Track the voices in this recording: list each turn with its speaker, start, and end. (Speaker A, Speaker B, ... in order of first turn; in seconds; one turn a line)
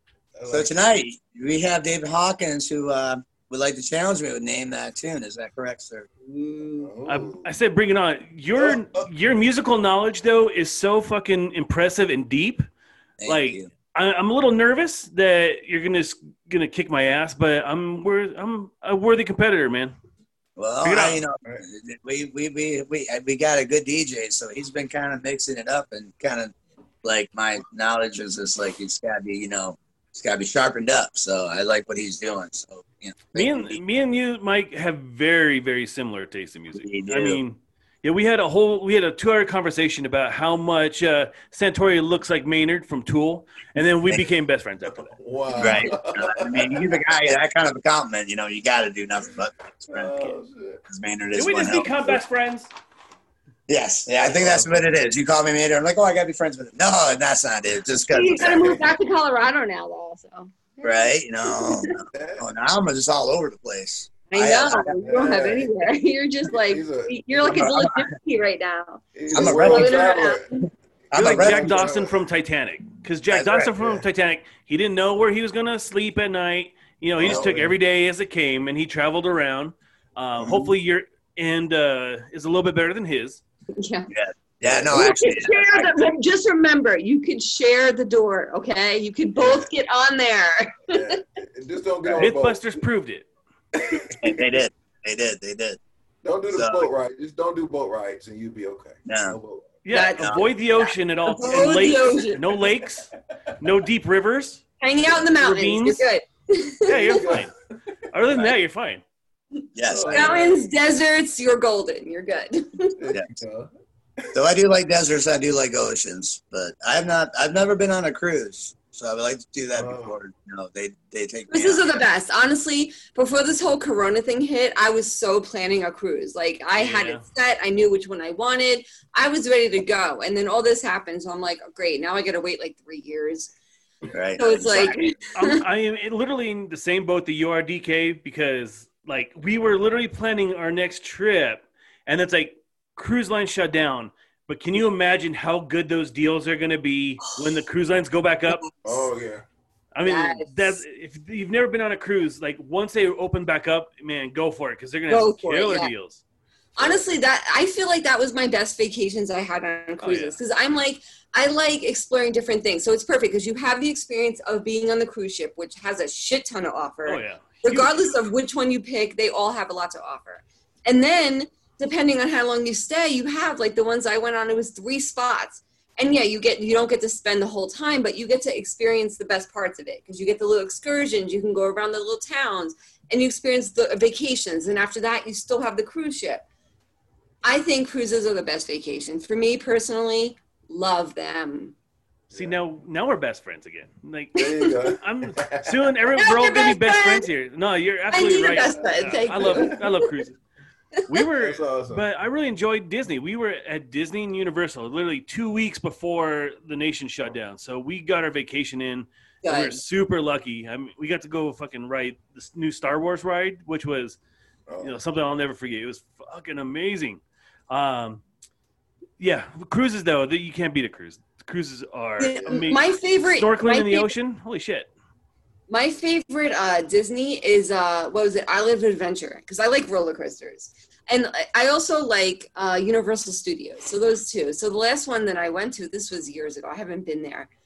Speaker A: 0.4-0.8
Speaker B: 0.5-6.1
Speaker A: 6.2-7.5
Speaker C: 7.1-12.7
Speaker A: 8.6-9.1
Speaker B: 13.2-13.7
Speaker C: 13.3-19.9
Speaker B: 20.6-33.8
Speaker C: 20.8-21.2
Speaker C: 33.3-45.7
Speaker B: 36.7-37.4
Speaker A: 44.9-47.0
Speaker B: 45.6-50.3
Speaker A: 49.9-50.8
Speaker B: 50.9-52.2
Speaker C: 51.3-52.7
Speaker B: 53.7-58.8
Speaker A: 54.2-54.8
Speaker D: 58.1-61.9
Speaker B: 60.8-65.0
Speaker A: 62.1-62.4
Speaker D: 64.3-70.5
Speaker A: 65.0-65.7
Speaker A: 66.5-67.7
Speaker B: 67.5-68.1
Speaker A: 69.2-70.5
Speaker B: 69.3-70.1
Speaker B: 71.1-71.9
Speaker C: 71.1-83.4
Speaker A: 71.2-72.2
Speaker B: 73.3-73.7
Speaker A: 73.8-74.0
Speaker B: 77.2-77.5
Speaker A: 77.2-77.7
Speaker D: 83.7-84.1
Speaker B: 84.1-85.9
Speaker D: 84.9-91.0
Speaker A: 89.4-89.7
Speaker A: 90.9-92.6
Speaker C: 92.2-93.3
Speaker A: 93.8-94.1
Speaker B: 94.2-95.8
Speaker A: 96.2-99.7
Speaker B: 96.5-96.9
Speaker B: 99.1-99.4
Speaker C: 99.8-104.6
Speaker D: 99.9-102.4
Speaker B: 100.2-100.5
Speaker D: 104.8-107.2
Speaker C: 105.3-106.0
Speaker C: 106.9-107.5
Speaker A: 107.0-107.5
Speaker C: 108.1-109.0
Speaker B: 109.8-110.4
Speaker A: 109.9-110.7
Speaker D: 110.1-113.0
Speaker A: 113.0-113.7
Speaker B: 114.3-122.0
Speaker A: 119.8-120.1
Speaker D: 121.5-133.5
Speaker C: 126.8-127.2
Speaker B: 134.1-135.1
Speaker D: 134.4-135.6
Speaker C: 135.3-148.7
Speaker A: 148.8-149.4
Speaker C: 149.9-156.2
Speaker D: 150.0-150.8
Speaker D: 155.1-155.9
Speaker D: 156.8-186.4
Speaker A: 156.8-157.1
Speaker C: 160.0-160.4
Speaker C: 167.1-168.1
Speaker D: 187.4-191.7
Speaker A: 192.3-192.6
Speaker C: 192.3-200.4
Speaker A: 194.4-195.9
Speaker D: 196.2-197.3
Speaker D: 198.1-199.9
Speaker A: 198.6-199.8
Speaker C: 201.1-214.2
Speaker A: 201.4-202.1
Speaker D: 209.4-209.8
Speaker A: 214.7-215.0
Speaker C: 214.8-218.2
Speaker C: 219.2-224.9
Speaker D: 222.2-224.2
Speaker D: 225.7-237.5